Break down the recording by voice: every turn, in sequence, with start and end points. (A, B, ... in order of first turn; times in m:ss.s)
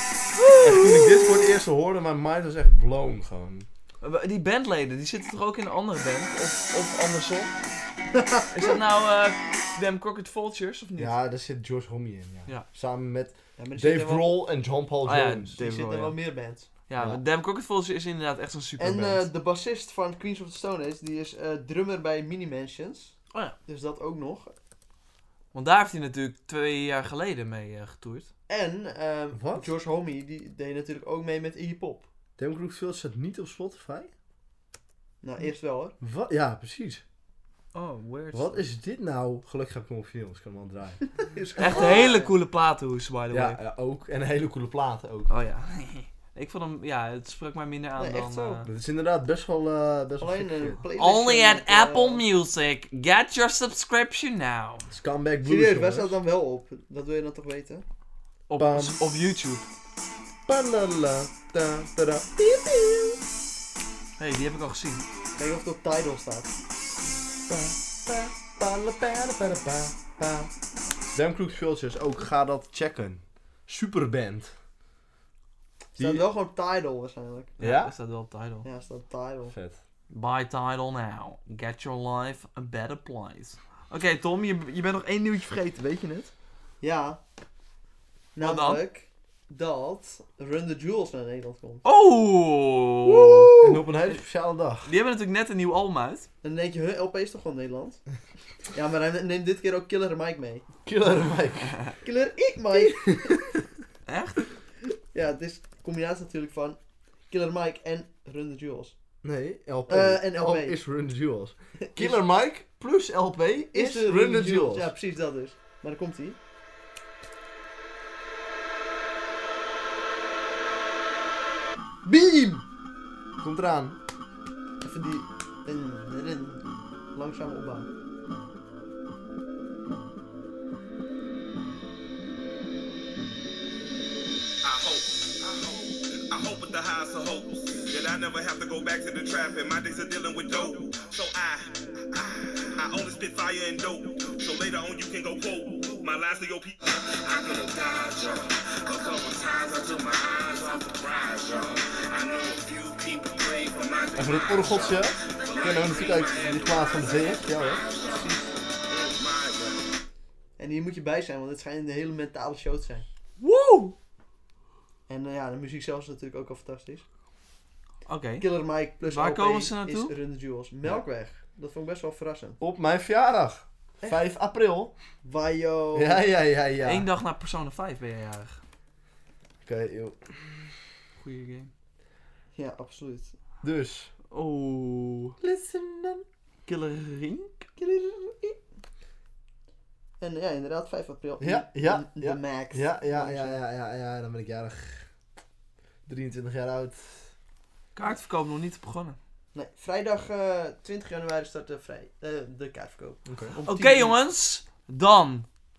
0:00.4-0:01.5 A
0:00.6-0:03.7 B
0:04.0-0:07.5 A
0:08.1-0:08.7 C
0:08.5-0:11.1 A
0:11.0-0:15.6 B
0:13.6-0:14.3 C
0:15.0-0:16.2 A
0:15.6-0:16.7 C
0:16.9-0:19.3 A
0:18.8-0:24.5 C
0:25.5-0:28.3 A
0:28.5-0:32.1 C
0:29.3-0:29.7 B
0:32.4-0:34.1 B
0:35.2-0:36.0 C
0:36.0-0:37.0 B
0:37.7-0:38.6 A
0:38.3-0:41.0 B
0:41.2-0:42.3 C
0:41.6-0:43.6 A
0:43.3-0:45.3 B
0:45.3-0:48.7 A
0:48.0-0:48.6 C
0:48.6-0:50.8 B
0:50.2-0:52.2 C
0:51.0-0:54.8 A
0:54.9-0:56.1 B
0:55.4-0:57.8 C
0:58.5-0:59.6 A
0:58.6-0:59.0 B
1:00.5-1:03.2 B
1:04.2-1:05.0 A
1:05.4-1:06.5 C
1:07.5-1:10.5 B
1:11.1-1:14.5 B
1:16.0-1:16.2 B
1:16.0-1:17.6 C
1:17.6-1:17.9 B
1:17.6-1:18.6 A
1:18.6-1:19.5 C
1:19.5-1:19.8 B
1:20.1-1:26.3 A
1:26.8-1:27.2 C
1:28.3-1:31.8 C
1:28.4-1:28.8 A
1:31.8-1:34.2 A
1:33.0-1:34.9 B
1:34.8-1:36.3 A
1:36.4-1:38.0 C
1:38.7-1:40.6 C
1:40.8-1:41.8 B
1:42.0-1:43.4 C
1:42.8-1:43.6 B
1:44.1-1:44.5 A
1:45.1-1:48.9 C
1:49.2-1:54.9 B
1:49.9-1:50.8 C
1:51.8-1:52.2 C
1:53.7-1:56.4 C
2:02.0-2:02.6 C
2:03.4-2:04.0 B
2:04.8-2:06.6 C
2:07.1-2:07.9 C
2:14.6-2:15.7 D
2:16.3-2:37.3 D
2:34.1-2:37.8 B
2:38.0-2:38.5 C
2:38.9-2:39.8 D
2:40.6-2:43.0 C
2:43.4-2:43.9 A
2:45.1-2:47.0 C
2:48.0-2:48.5 A
2:48.4-2:52.6 C
2:49.0-2:50.1 A
2:52.6-2:54.9 B
2:55.2-2:56.2 C
2:55.9-2:57.0 B
2:56.8-2:58.6 A
2:59.6-3:00.8 B
3:01.2-3:01.7 A
3:02.6-3:03.3 C
3:03.6-3:04.1 B
3:04.3-3:05.3 A
3:05.4-3:06.2 B
3:06.6-3:07.8 A
3:10.2-3:13.6 C
3:11.4-3:15.1 B
3:16.0-3:17.3 B
3:17.9-3:19.2 A
3:19.5-3:24.2 C
3:23.2-3:23.6 B
3:23.6-3:25.5 A